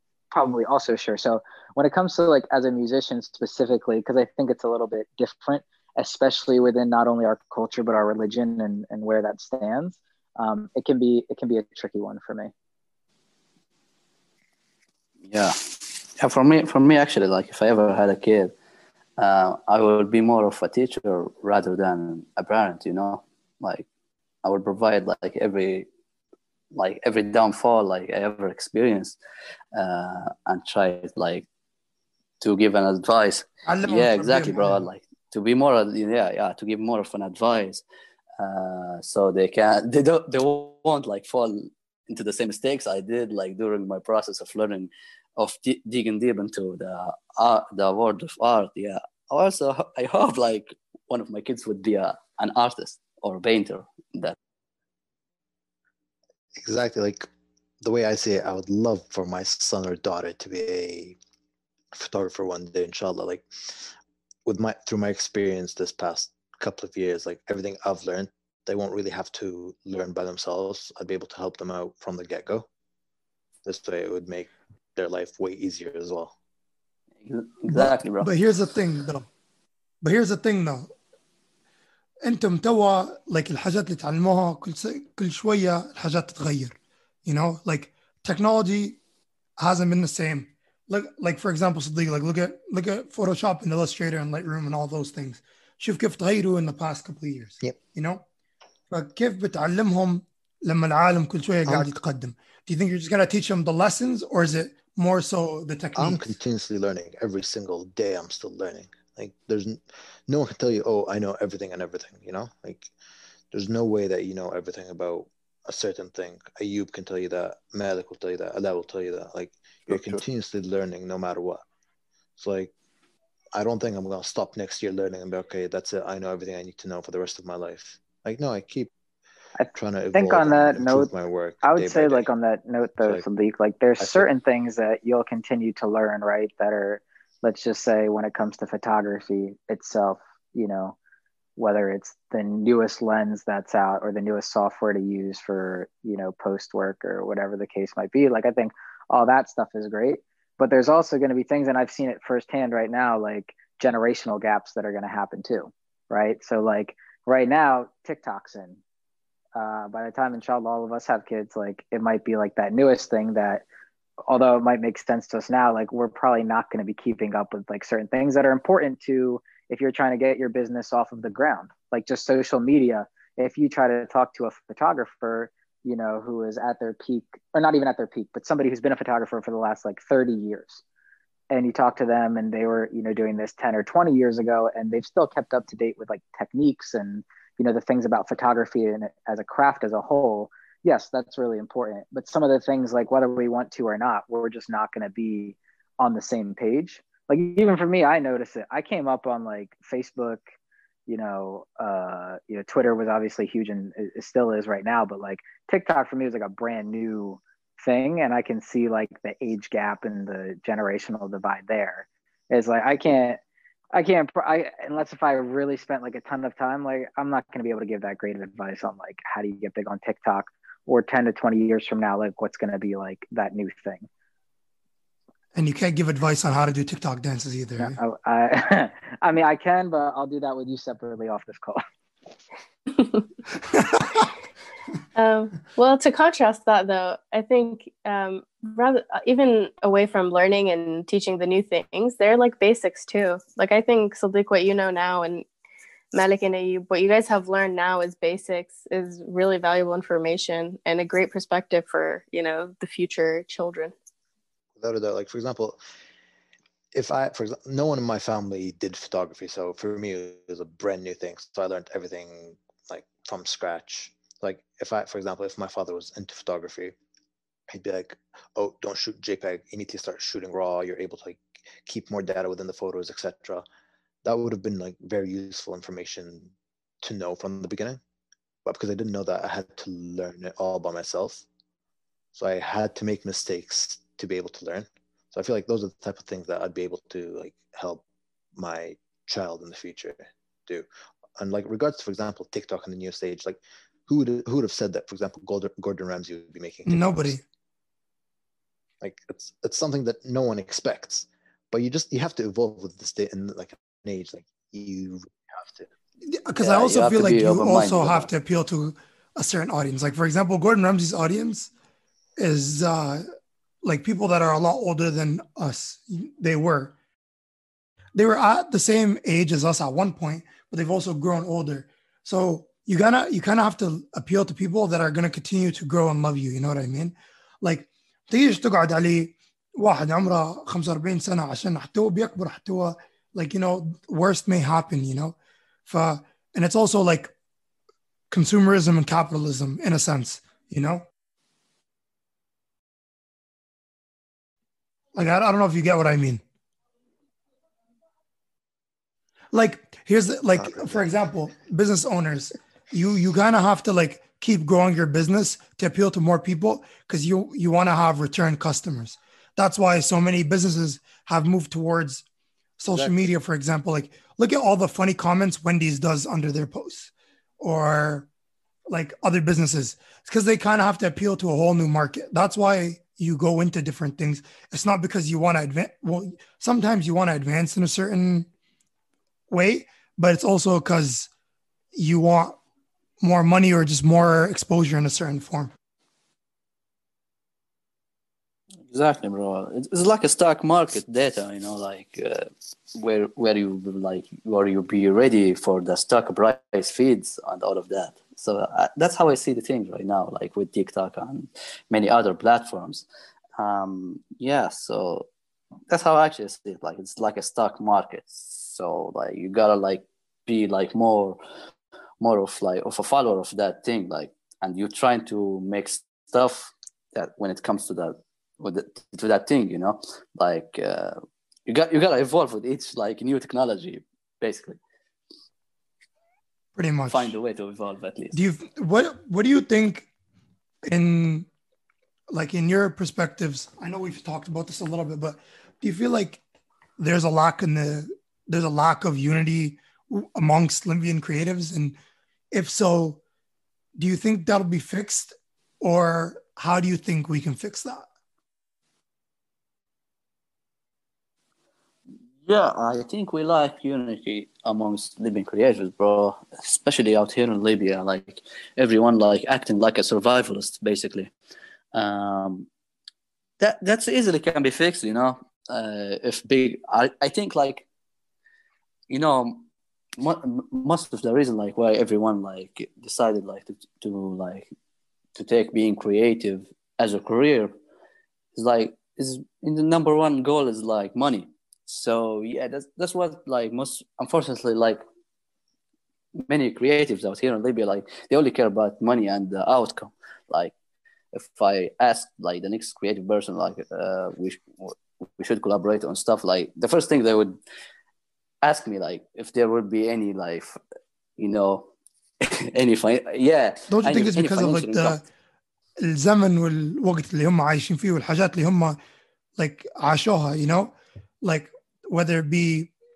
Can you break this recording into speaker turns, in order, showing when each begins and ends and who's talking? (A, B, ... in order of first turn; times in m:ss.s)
0:00.3-0:12.5 A
0:15.3-0:18.5 B
0:19.2-0:23.8 B
0:24.4-0:25.9 B
0:26.7-0:29.2 B
0:29.7-0:31.4 B
0:32.4-0:37.8 B
0:33.6-0:34.8 C
0:38.4-0:54.4 B
0:56.6-0:57.3 D
0:57.8-1:01.2 D
1:02.0-1:03.9 D
1:04.4-1:12.6 D
1:13.6-1:16.3 D
1:17.2-1:18.3 B
1:17.7-1:19.2 C
1:20.0-1:20.9 C
1:22.2-1:29.0 C
1:29.6-1:38.2 C
1:38.9-1:46.3 C
1:41.6-1:41.9 D
1:46.0-1:52.9 D
1:53.5-2:01.6 D
1:59.9-2:00.2 B
2:02.4-2:02.7 D
2:03.5-2:08.9 D
2:09.6-2:11.1 A
2:09.7-2:12.2 D
2:11.6-2:21.0 A
2:14.0-2:14.2 D
2:21.6-2:38.8 A
2:39.6-2:43.6 A
2:44.3-3:00.8 A
3:01.5-3:20.4 A
3:21.1-3:33.4 A
3:33.9-3:44.1 A
3:45.5-3:48.0 C
3:47.8-3:51.8 A
3:55.1-4:05.4 E
4:06.1-4:13.9 E
4:14.8-4:15.8 D
4:16.9-4:26.9 D
4:27.7-4:33.6 D
4:34.2-4:38.0 D
4:38.6-4:41.4 D
4:42.3-4:48.0 D
4:48.6-4:50.8 D
4:51.4-4:57.4 D
4:56.8-4:57.4 C
4:59.0-5:05.9 D
5:06.3-5:11.7 C
5:06.6-5:08.3 B
5:12.4-5:13.2 C
5:13.8-5:16.9 C
5:18.1-5:35.4 C
5:35.9-5:37.3 C
5:38.3-5:41.0 C
5:45.1-5:46.4 C
5:49.5-6:02.2 C
5:50.6-5:51.0 D
6:02.8-6:08.3 C
6:02.9-6:03.2 B
6:08.9-6:18.5 C
6:19.5-6:21.3 C
6:21.9-6:22.6 C
6:23.2-6:25.7 C
6:28.9-6:43.0 B
6:43.6-6:45.3 B
6:45.9-6:51.4 B
6:52.2-7:04.8 B
7:06.8-7:07.3 C
7:07.1-7:08.4 B
7:08.3-7:10.1 C
7:10.8-7:11.5 C
7:12.3-7:16.4 C
7:17.0-7:22.0 C
7:22.5-7:23.2 C
7:24.0-7:28.0 C
7:32.4-7:41.3 B
7:41.9-7:42.7 B
7:43.6-7:47.8 B
7:49.1-7:49.6 B
7:50.2-7:54.7 B
7:55.3-7:57.7 B
7:58.5-8:05.0 B
8:06.3-8:10.7 B
8:11.3-8:17.6 B
8:18.6-8:20.8 B
8:21.4-8:25.2 B
8:23.9-8:25.2 C
8:26.0-8:29.0 C
8:29.6-8:32.9 C